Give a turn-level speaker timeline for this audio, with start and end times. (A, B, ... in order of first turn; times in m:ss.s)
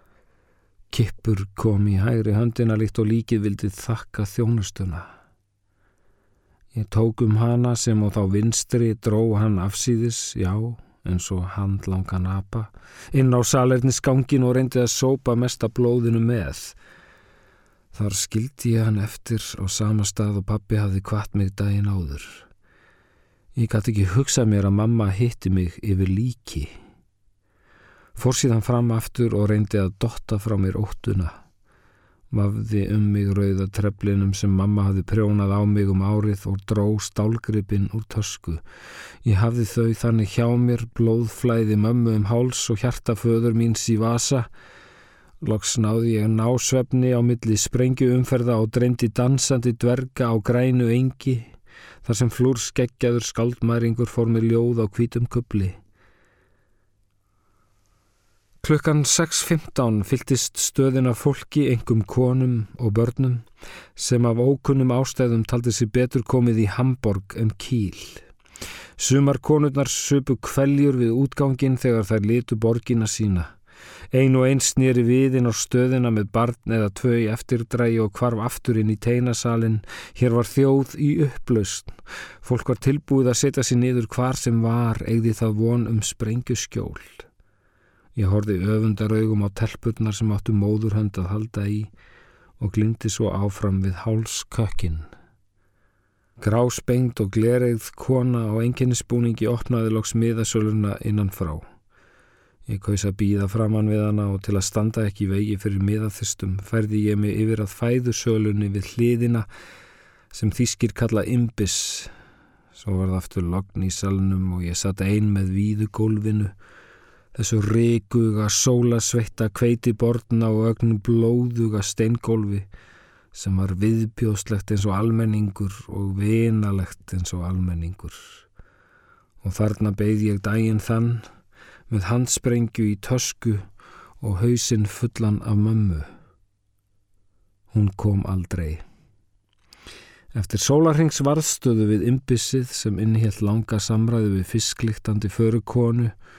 0:00.9-0:05.1 A
0:06.7-0:16.8 A
0:17.9-0:22.5 A
0:23.6-0:26.7 A
0:28.2-0:31.4 A
0:32.3-0:38.6 A
0:39.2-0:44.5 A
0:45.4-0:51.5 A
0:52.0-0:55.8 A
0:58.6-1:08.2 A
1:09.0-1:13.6 A
1:14.1-1:27.3 A
1:28.2-1:31.9 A
1:32.6-1:35.1 A
1:36.4-1:41.6 A
1:42.7-1:49.5 A
1:50.3-1:52.1 A
1:52.8-1:56.5 A
1:57.4-2:02.7 A
2:03.3-2:08.4 A
2:09.4-2:11.3 A
2:11.9-2:13.7 A
2:14.2-2:16.1 A
2:17.7-2:18.8 A
2:20.3-2:26.2 A